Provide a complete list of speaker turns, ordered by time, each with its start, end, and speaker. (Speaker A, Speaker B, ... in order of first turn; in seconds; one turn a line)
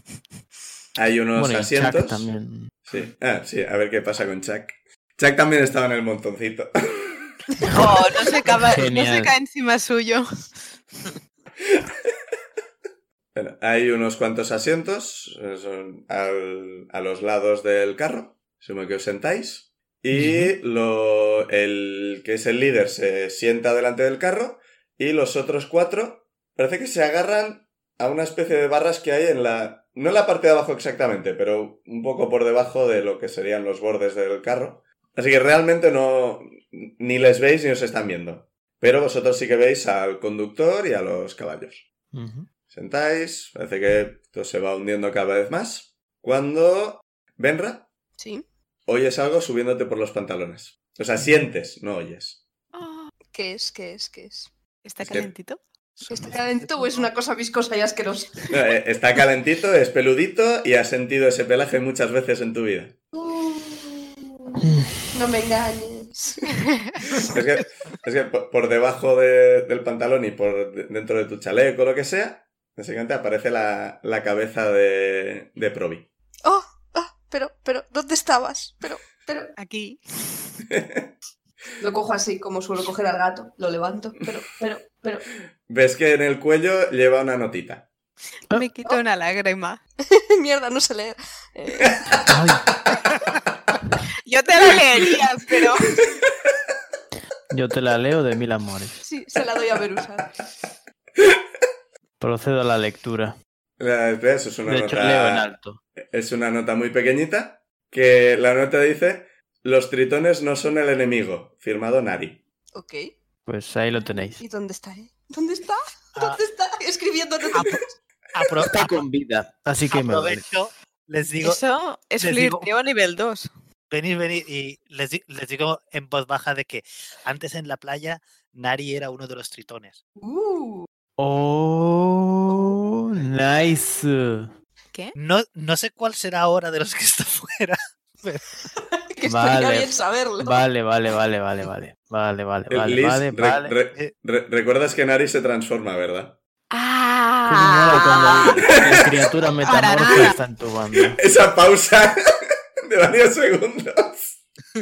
Speaker A: 0.9-2.3
Speaker B: 1.3-2.7
Speaker A: 2.9-7.4
Speaker B: 7.6-7.9
Speaker C: 7.7-10.2
Speaker B: 8.6-9.3
Speaker A: 13.3-41.9
Speaker B: 20.1-20.5
Speaker B: 42.1-42.5
Speaker A: 42.7-47.9
Speaker D: 48.2-48.4
Speaker A: 48.9-52.4
Speaker C: 52.7-53.1
Speaker D: 53.3-54.5
Speaker C: 54.8-55.6
Speaker A: 55.0-55.3
Speaker E: 56.0-57.1
Speaker D: 56.1-58.3
Speaker A: 58.5-62.9
Speaker D: 63.1-64.6
Speaker B: 64.6-65.0
Speaker D: 65.1-66.5
Speaker A: 67.3-76.1
Speaker D: 76.4-79.5
Speaker C: 79.6-80.0
Speaker A: 80.7-81.0
Speaker D: 81.8-85.2
Speaker A: 85.7-87.9
Speaker C: 88.5-89.8
Speaker D: 90.1-92.2
Speaker A: 91.9-92.2
Speaker B: 92.2-92.7
Speaker C: 94.2-96.0
Speaker B: 97.5-99.0
Speaker D: 99.0-100.3
Speaker B: 102.2-103.3
Speaker A: 103.8-105.5
Speaker B: 104.7-105.8
Speaker A: 106.1-112.4
Speaker D: 112.7-113.1
Speaker B: 113.5-114.4
Speaker D: 113.9-117.9
Speaker E: 116.1-116.4
Speaker E: 117.5-117.8
Speaker E: 118.3-119.0
Speaker B: 118.7-120.4
Speaker E: 119.9-121.6
Speaker C: 121.4-123.5
Speaker E: 122.2-122.7
Speaker E: 123.9-130.0
Speaker D: 130.2-130.9
Speaker B: 131.2-134.5
Speaker E: 135.2-138.4
Speaker D: 138.9-140.6
Speaker B: 139.2-143.7
Speaker A: 142.7-146.4
Speaker C: 146.7-148.7
Speaker B: 147.4-151.2
Speaker A: 148.9-149.2
Speaker C: 149.6-150.4
Speaker A: 151.1-152.2
Speaker A: 152.8-154.4